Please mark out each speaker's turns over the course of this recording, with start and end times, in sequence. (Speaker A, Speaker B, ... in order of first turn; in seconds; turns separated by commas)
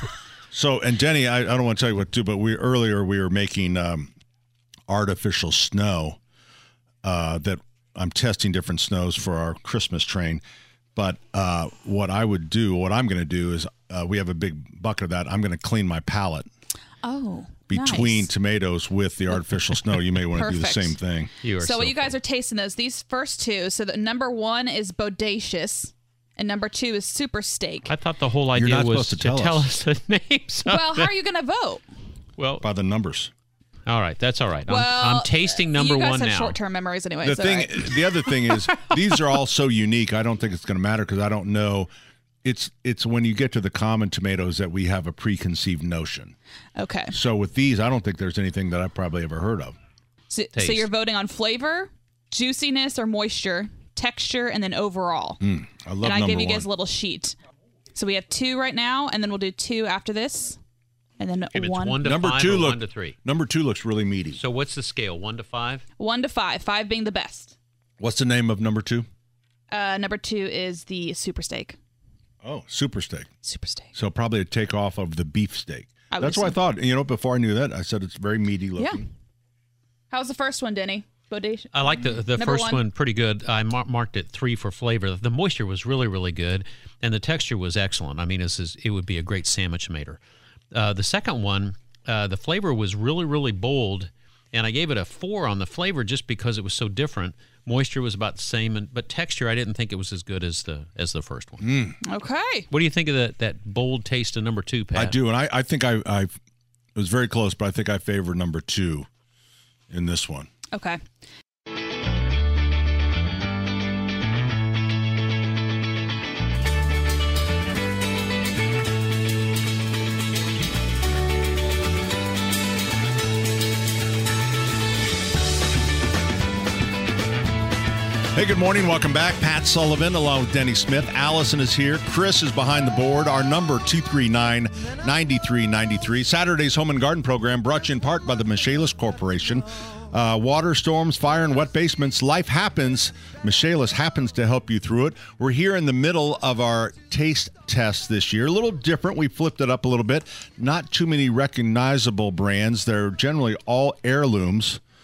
Speaker A: 0.5-4.1, Speaker A: 4.9-6.2, Speaker A: 7.0-10.4, Speaker A: 10.9-16.5, Speaker B: 17.0-18.3, Speaker A: 17.7-21.3, Speaker B: 20.2-21.0, Speaker C: 21.4-22.1, Speaker B: 21.5-27.9, Speaker C: 27.9-31.1, Speaker A: 28.5-29.7, Speaker B: 30.6-31.8, Speaker C: 32.4-32.6, Speaker A: 32.6-33.3, Speaker C: 33.9-36.5, Speaker B: 34.6-38.3, Speaker A: 37.2-41.9, Speaker A: 42.4-46.3, Speaker B: 46.8-47.1, Speaker A: 47.1-49.8, Speaker B: 50.3-55.4, Speaker C: 50.5-50.9, Speaker A: 55.4-56.7, Speaker B: 56.0-57.4, Speaker B: 57.9-60.6, Speaker B: 61.2-62.0, Speaker C: 61.5-63.1, Speaker A: 62.0-64.4, Speaker C: 64.3-65.8, Speaker B: 66.0-67.5, Speaker A: 68.0-69.1, Speaker B: 69.7-71.8, Speaker A: 72.4-73.3, Speaker B: 73.4-73.9, Speaker A: 73.9-79.0, Speaker B: 76.1-76.6, Speaker B: 78.8-79.0, Speaker B: 80.1-82.8, Speaker C: 81.7-90.2, Speaker C: 90.7-101.6, Speaker A: 101.6-102.0, Speaker B: 102.0-102.7, Speaker C: 102.7-105.2, Speaker A: 104.9-106.3, Speaker A: 106.9-109.1, Speaker A: 109.9-110.5, Speaker B: 110.7-111.0, Speaker A: 128.3-154.8